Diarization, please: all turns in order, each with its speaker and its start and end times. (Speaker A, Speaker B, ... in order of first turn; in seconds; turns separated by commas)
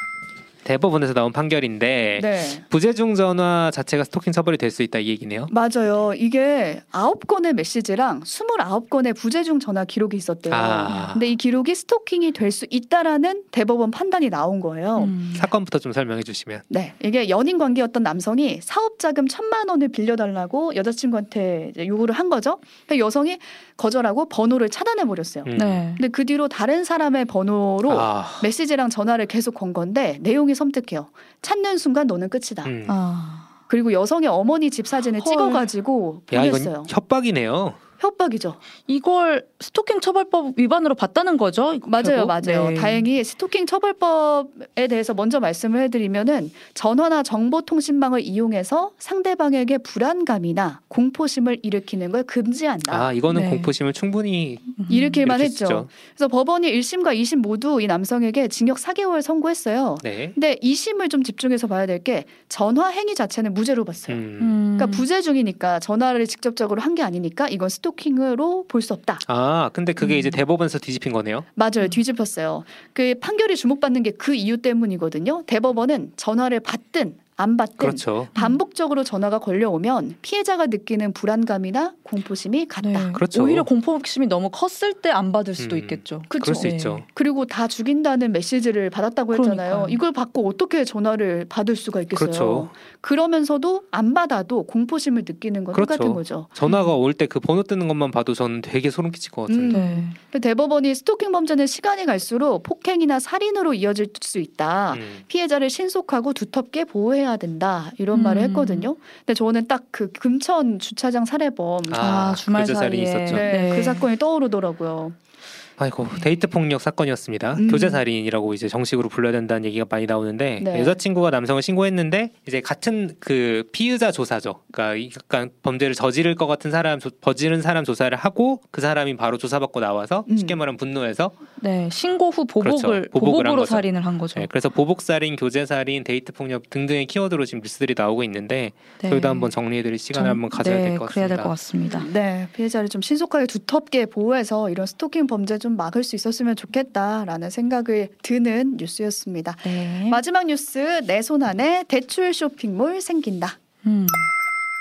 Speaker A: 0.7-5.5, Speaker B: 2.2-2.6, Speaker B: 5.5-15.2, Speaker A: 10.5-11.3, Speaker C: 10.9-11.1, Speaker C: 15.0-15.5, Speaker A: 15.3-16.6, Speaker B: 16.7-32.7, Speaker A: 25.5-25.8, Speaker C: 25.6-26.0, Speaker A: 27.9-28.5, Speaker A: 32.6-33.0, Speaker C: 32.9-33.5, Speaker B: 33.7-36.9, Speaker C: 35.1-35.7, Speaker A: 36.3-37.8, Speaker B: 38.0-38.6, Speaker C: 38.9-43.0, Speaker B: 41.9-53.1, Speaker A: 52.9-55.9, Speaker C: 53.3-53.7, Speaker C: 54.8-55.2, Speaker B: 54.9-64.2, Speaker A: 60.0-60.4, Speaker A: 64.1-64.6, Speaker C: 64.4-65.1, Speaker B: 64.8-69.2, Speaker A: 69.3-71.5, Speaker C: 70.0-70.4, Speaker B: 71.6-83.2, Speaker A: 77.8-78.3, Speaker C: 78.3-78.6, Speaker C: 82.8-87.0, Speaker A: 83.1-83.7, Speaker A: 85.6-87.0, Speaker B: 86.3-96.5, Speaker C: 89.3-90.0, Speaker A: 92.2-92.7, Speaker A: 95.7-99.8, Speaker C: 96.7-96.9, Speaker B: 99.5-112.3, Speaker C: 99.7-100.2, Speaker A: 104.9-105.2, Speaker C: 108.1-108.9, Speaker A: 111.9-113.5, Speaker C: 112.0-114.1, Speaker B: 113.3-115.2, Speaker A: 115.8-131.3, Speaker B: 117.5-118.0, Speaker B: 120.6-121.0, Speaker B: 130.3-130.6, Speaker C: 131.6-134.5, Speaker A: 132.6-141.6, Speaker C: 139.0-139.5, Speaker C: 140.1-142.1, Speaker B: 141.9-153.6, Speaker C: 149.6-150.2, Speaker C: 153.8-154.3